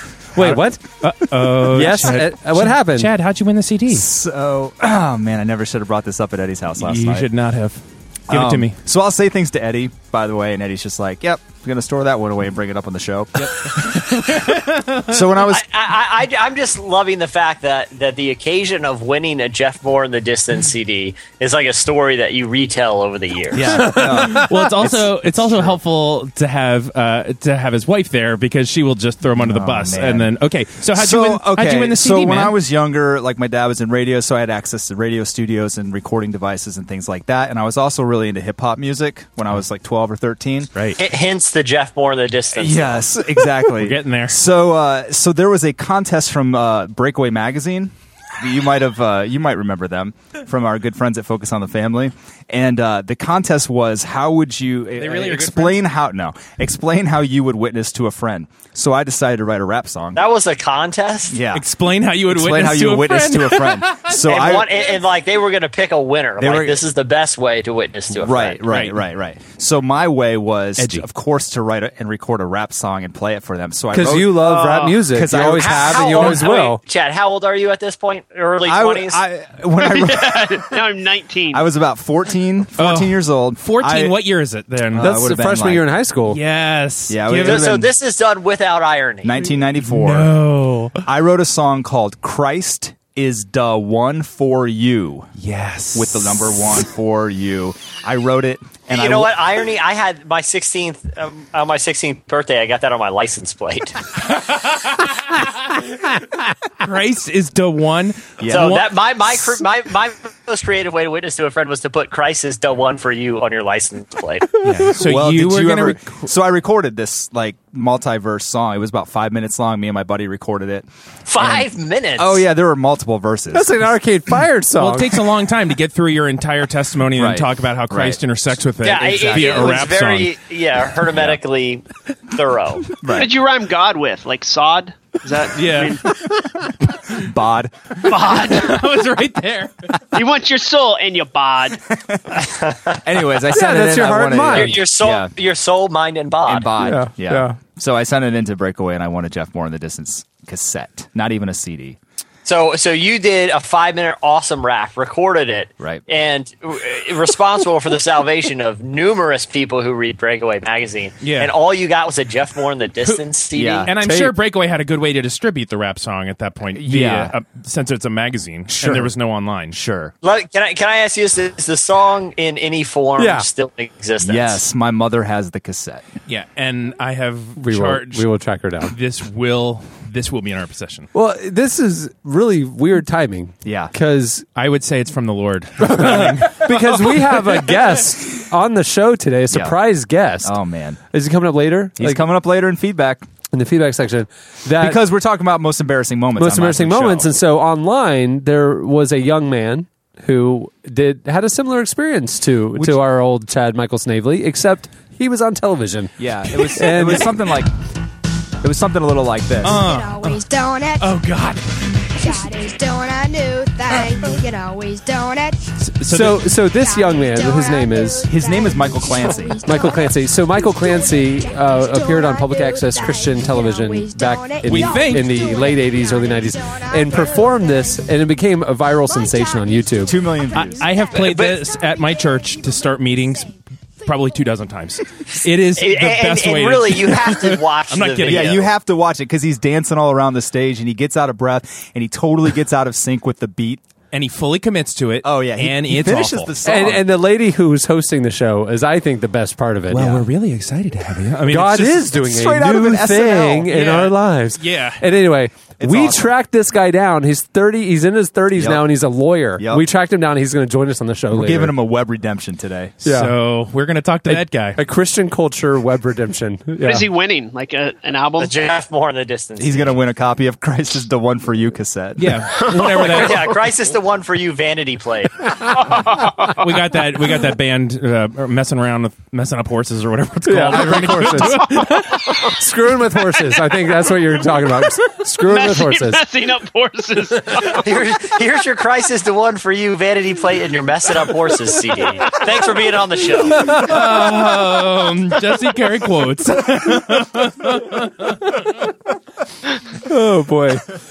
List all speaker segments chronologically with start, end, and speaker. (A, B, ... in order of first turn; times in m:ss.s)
0:00.3-0:00.8 A
0:00.4-0:04.1 B
0:01.7-0:03.1 A
0:03.9-0:07.3 C
0:06.8-0:08.7 B
0:08.3-0:15.6 C
0:13.4-0:15.2 B
0:15.4-0:23.7 D
0:23.5-0:25.8 C
0:23.6-0:32.5 B
0:23.7-0:24.5 A
0:29.3-0:30.3 C
0:30.9-0:40.7 C
0:41.0-0:43.0 D
0:42.5-1:00.2 C
0:43.7-0:44.4 B
0:55.0-0:55.8 B
1:00.1-1:01.4 D
1:01.3-1:01.6 C
1:01.5-1:04.2 B
1:02.3-1:05.0 C
1:04.1-1:08.6 D
1:06.4-1:06.8 C
1:08.1-1:16.4 C
1:08.7-1:09.0 B
1:10.8-1:11.0 B
1:13.9-1:16.8 A
1:15.5-1:19.2 D
1:18.6-1:20.8 C
1:19.8-1:21.6 E
1:21.5-1:24.2 C
1:22.8-1:25.2 B
1:24.9-1:25.9 C
1:25.0-1:26.4 A
1:26.3-1:27.8 B
1:27.1-1:27.9 C
1:27.4-1:29.5 D
1:29.2-1:30.4 C
1:29.8-1:31.0 B
1:31.0-1:35.3 C
1:35.4-1:36.8 B
1:35.9-1:39.4 C
1:38.9-1:44.0 D
1:44.4-1:45.8 B
1:46.8-1:48.9 B
1:48.4-1:48.8 C
1:48.5-1:54.5 D
1:54.6-1:56.2 B
1:54.9-2:03.8 C
2:01.3-2:02.4 D
2:03.5-2:05.2 A
2:04.8-2:10.3 B
2:07.1-2:08.2 C
2:08.8-2:13.0 D
2:09.0-2:09.8 C
2:11.1-2:11.4 C
2:13.0-2:13.3 C
2:13.1-2:16.0 E
2:15.5-2:16.0 B
2:17.1-2:18.2 C
2:18.0-2:19.9 B
2:18.0-2:18.9 E
2:20.1-2:21.8 E
2:22.4-2:23.0 D
2:23.0-2:25.3 C
2:23.5-2:24.8 A
2:24.5-2:26.7 D
2:26.4-2:32.0 C
2:26.8-2:27.6 A
2:32.4-2:43.9 D
2:41.2-2:41.5 B
2:43.5-2:43.9 C
2:43.8-2:49.8 B
2:44.0-2:44.3 A
2:46.7-2:47.3 C
2:48.7-2:49.1 C
2:49.7-2:50.1 C
2:50.2-2:54.6 D
2:53.2-2:53.4 A
2:54.2-2:56.0 C
2:56.3-2:58.3 B
2:57.6-2:58.9 A
2:58.8-3:01.1 B
3:01.1-3:04.4 A
3:03.6-3:03.9 C
3:04.6-3:07.8 B
3:05.8-3:10.5 A
3:09.5-3:09.8 C
3:10.4-3:11.0 C
3:11.1-3:12.2 A
3:12.0-3:13.2 C
3:13.5-3:15.0 A
3:14.8-3:17.3 C
3:16.4-3:26.1 A
3:22.8-3:23.0 C
3:26.2-3:27.7 C
3:26.5-3:27.0 B
3:26.7-3:27.3 A
3:28.6-3:29.8 C
3:29.6-3:30.4 B
3:29.6-3:31.2 F
3:31.0-3:31.6 B
3:32.2-3:35.6 F
3:36.0-3:36.5 B
3:36.0-3:38.3 A
3:36.6-3:48.3 F
3:38.3-3:39.6 C
3:39.6-3:50.2 A
3:44.6-3:45.5 B
3:49.0-3:53.5 F
3:50.0-3:50.8 C
3:50.5-3:53.5 B
3:51.2-3:51.6 D
3:54.0-3:58.6 B
3:55.7-3:58.7 D
3:58.2-4:03.8 C
4:04.1-4:06.5 B
4:05.2-4:07.1 C
4:06.6-4:10.2 A
4:09.9-4:12.1 B
4:11.5-4:21.7 A
4:12.1-4:13.7 C
4:13.7-4:15.0 B
4:15.8-4:16.3 C
4:18.5-4:18.9 C
4:19.6-4:19.8 C
4:21.3-4:22.9 C
4:23.0-4:24.8 B
4:23.0-4:23.3 A
4:24.3-4:27.0 A
4:26.8-4:28.6 E
4:28.4-4:29.9 D
4:29.6-4:32.6 C
4:32.2-4:33.5 B
4:33.0-4:35.5 D
4:35.8-4:36.6 E
4:36.5-4:42.5 B
4:40.4-4:46.2 A
4:45.4-4:47.8 E
4:47.6-4:53.7 D
4:53.5-4:54.0 A
4:53.6-4:58.7 B
5:00.0-5:00.8 A